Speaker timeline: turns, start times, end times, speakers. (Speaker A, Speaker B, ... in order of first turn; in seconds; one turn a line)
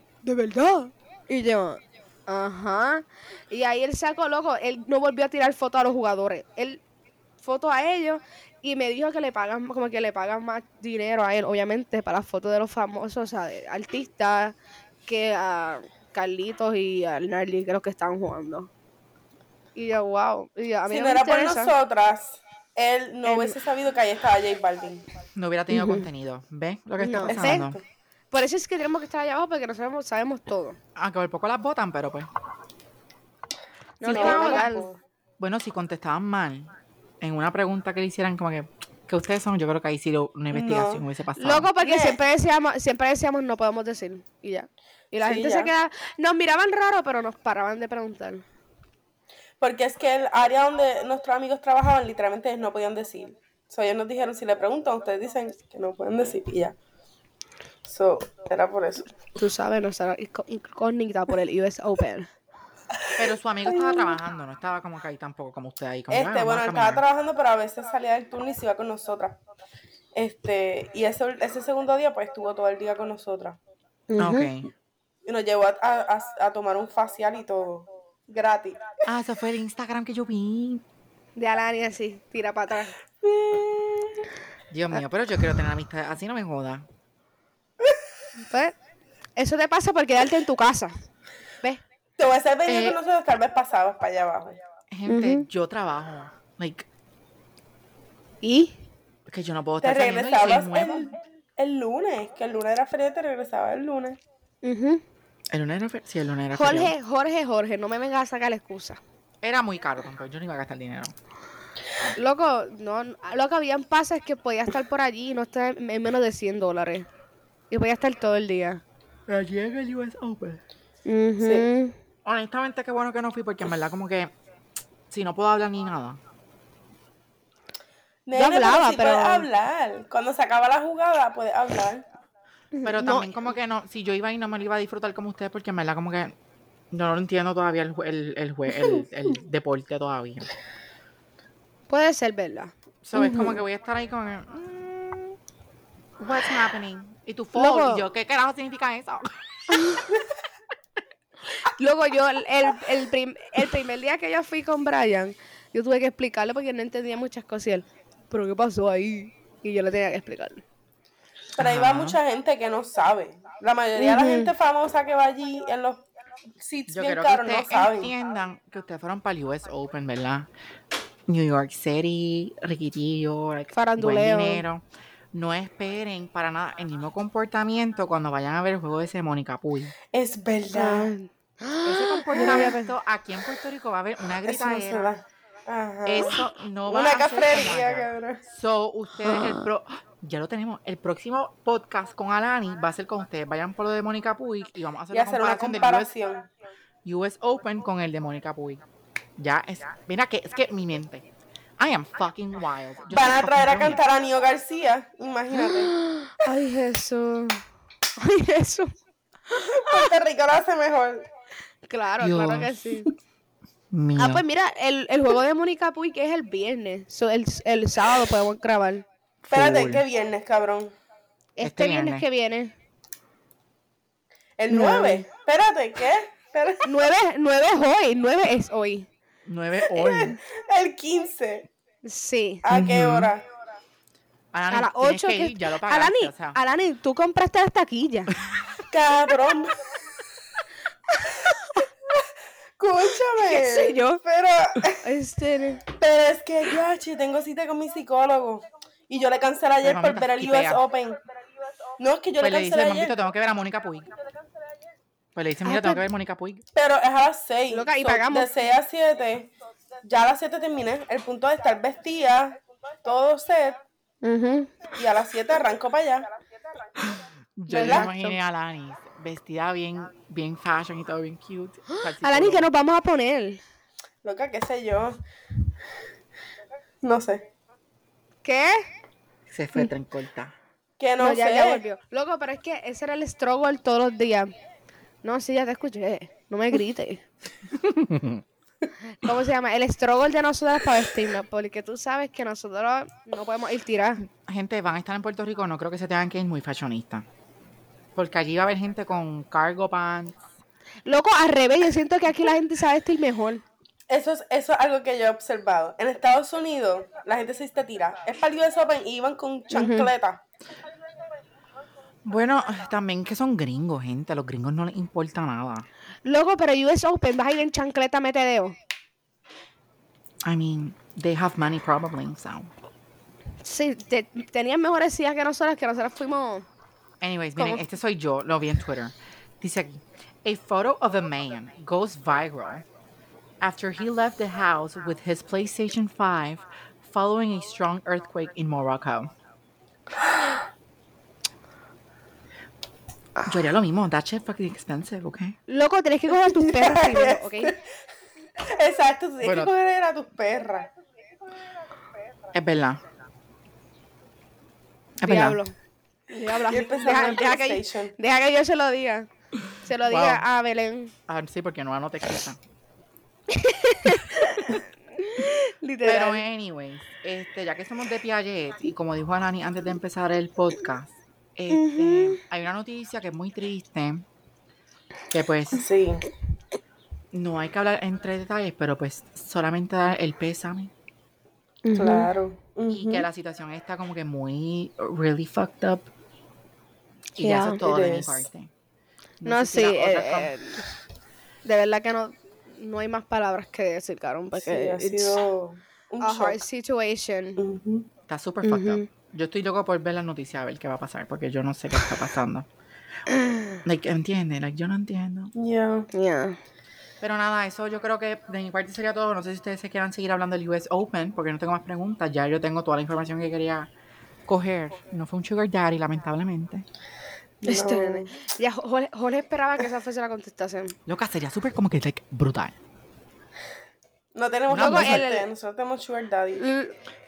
Speaker A: 0.2-6.8
Speaker A: 7.4-14.5
Speaker A: 15.1-18.7
Speaker A: 19.8-21.7
Speaker B: 20.9-25.1
Speaker A: 23.2-23.6
Speaker C: 25.3-27.8
Speaker A: 25.7-26.1
Speaker A: 27.0-27.7
Speaker B: 27.3-27.8
Speaker A: 28.3-30.8
Speaker C: 30.9-32.3
Speaker A: 34.0-34.9
Speaker C: 34.0-34.7
Speaker B: 34.0-35.0
Speaker C: 35.4-41.7
Speaker B: 40.5-41.0
Speaker A: 41.4-48.4
Speaker B: 41.8-42.2
Speaker B: 45.2-45.7
Speaker B: 49.6-56.8
Speaker B: 57.9-59.1
Speaker A: 59.4-62.3
Speaker C: 63.2-67.0
Speaker B: 63.7-64.2
Speaker B: 66.1-69.4
Speaker B: 70.1-73.6
Speaker A: 74.1-74.5
Speaker C: 74.2-74.7
Speaker B: 75.2-79.0
Speaker C: 79.0-80.8
Speaker A: 81.3-83.0
Speaker B: 83.2-84.2
Speaker C: 84.7-86.8
Speaker A: 88.4-88.7
Speaker A: 89.3-91.0
Speaker B: 92.2-94.6
Speaker C: 92.7-93.0
Speaker C: 94.9-96.9
Speaker A: 95.1-95.5
Speaker A: 98.4-98.8
Speaker C: 99.3-101.1
Speaker B: 99.8-104.2
Speaker A: 104.6-105.0
Speaker C: 105.5-106.9
Speaker A: 106.5-109.0
Speaker C: 109.4-111.1
Speaker A: 112.1-117.1
Speaker A: 117.7-118.8
Speaker C: 119.3-120.6
Speaker A: 121.0-121.9
Speaker B: 121.4-121.7
Speaker C: 122.2-124.3
Speaker C: 125.1-126.2
Speaker B: 128.2-132.0
Speaker A: 128.3-129.4
Speaker A: 132.7-133.3
Speaker C: 132.8-136.3
Speaker C: 136.9-140.5
Speaker A: 141.9-143.2
Speaker C: 143.0-145.4
Speaker B: 143.2-143.4
Speaker C: 146.2-149.8
Speaker A: 147.5-148.0
Speaker A: 149.7-150.0
Speaker A: 151.6-160.6
Speaker B: 161.5-166.0
Speaker C: 161.6-162.2
Speaker A: 164.0-164.5
Speaker B: 166.6-168.1
Speaker C: 166.9-170.5
Speaker C: 171.3-179.9
Speaker A: 173.7-174.6
Speaker B: 180.1-181.1
Speaker A: 180.7-182.9
Speaker C: 181.8-185.1
Speaker B: 182.4-182.7
Speaker B: 184.4-188.4
Speaker C: 186.1-196.1
Speaker B: 195.1-196.4
Speaker C: 197.0-198.8
Speaker C: 199.4-201.2
Speaker C: 201.8-204.0
Speaker B: 203.1-205.9
Speaker A: 205.6-207.6
Speaker A: 208.2-208.9
Speaker A: 209.5-210.1
Speaker B: 209.5-211.2
Speaker A: 211.9-213.1
Speaker C: 212.2-212.9
Speaker C: 213.9-214.4
Speaker A: 214.2-219.1
Speaker C: 219.4-220.0
Speaker B: 219.5-220.9
Speaker A: 221.6-222.7
Speaker C: 221.6-222.2
Speaker B: 224.6-227.1
Speaker A: 224.7-225.3
Speaker A: 226.8-229.1
Speaker C: 229.4-230.4
Speaker B: 229.9-231.7
Speaker A: 232.0-232.6
Speaker B: 232.6-233.4
Speaker C: 232.7-233.3
Speaker C: 234.5-236.6
Speaker A: 234.7-238.3
Speaker B: 238.9-239.7
Speaker A: 241.1-241.8
Speaker B: 241.8-242.2
Speaker B: 242.8-245.1
Speaker A: 243.4-244.2
Speaker A: 244.9-245.8
Speaker B: 245.9-251.2
Speaker C: 249.8-250.8
Speaker B: 252.0-253.2
Speaker C: 252.4-254.1
Speaker C: 255.3-256.6
Speaker A: 255.6-256.0
Speaker B: 256.7-259.5
Speaker A: 257.7-258.5
Speaker B: 260.0-263.8
Speaker A: 264.2-264.8
Speaker B: 264.9-266.3
Speaker C: 267.0-272.7
Speaker A: 267.7-268.4
Speaker B: 267.7-268.1
Speaker A: 271.9-273.6
Speaker B: 274.2-275.2
Speaker B: 277.0-277.4
Speaker A: 278.4-278.8
Speaker C: 279.5-280.5
Speaker B: 281.0-281.8
Speaker A: 281.2-284.5
Speaker A: 285.2-287.2
Speaker C: 287.7-288.4
Speaker A: 289.1-294.2
Speaker C: 294.2-297.2
Speaker C: 298.1-300.4
Speaker A: 301.1-303.6
Speaker B: 304.1-310.4
Speaker A: 309.7-310.1
Speaker C: 312.2-315.9
Speaker A: 316.2-318.8
Speaker C: 320.4-322.7
Speaker A: 323.6-326.7
Speaker C: 327.2-332.8
Speaker A: 327.6-327.8
Speaker C: 333.6-339.3
Speaker C: 343.4-345.6
Speaker A: 345.7-347.8
Speaker B: 346.5-347.8
Speaker B: 348.6-350.9
Speaker C: 349.4-349.7
Speaker C: 352.5-353.0
Speaker C: 355.2-355.6
Speaker A: 355.2-355.7
Speaker A: 356.3-361.1
Speaker B: 356.6-358.1
Speaker C: 360.1-360.4
Speaker C: 361.3-362.6
Speaker A: 363.5-366.4
Speaker C: 364.4-364.8
Speaker C: 366.0-374.2
Speaker A: 371.7-372.4
Speaker C: 375.3-375.8
Speaker B: 375.7-376.3
Speaker C: 377.3-380.9
Speaker A: 381.8-382.3
Speaker B: 381.9-383.2
Speaker C: 382.9-386.1
Speaker C: 387.3-388.7
Speaker A: 387.4-387.8
Speaker B: 387.8-388.4
Speaker C: 389.4-390.5
Speaker A: 389.4-390.9
Speaker A: 391.6-395.4
Speaker B: 394.6-396.6
Speaker A: 396.2-397.6
Speaker B: 397.6-398.1
Speaker C: 398.3-402.7
Speaker A: 398.6-399.1
Speaker A: 403.3-403.8
Speaker C: 403.8-405.5
Speaker B: 405.5-406.1
Speaker A: 406.1-406.6
Speaker C: 407.2-413.9
Speaker C: 414.5-416.9
Speaker B: 417.6-418.3
Speaker A: 417.6-421.0
Speaker C: 421.1-422.8
Speaker B: 424.3-426.6
Speaker C: 424.7-425.3
Speaker A: 424.7-425.5
Speaker A: 426.6-426.9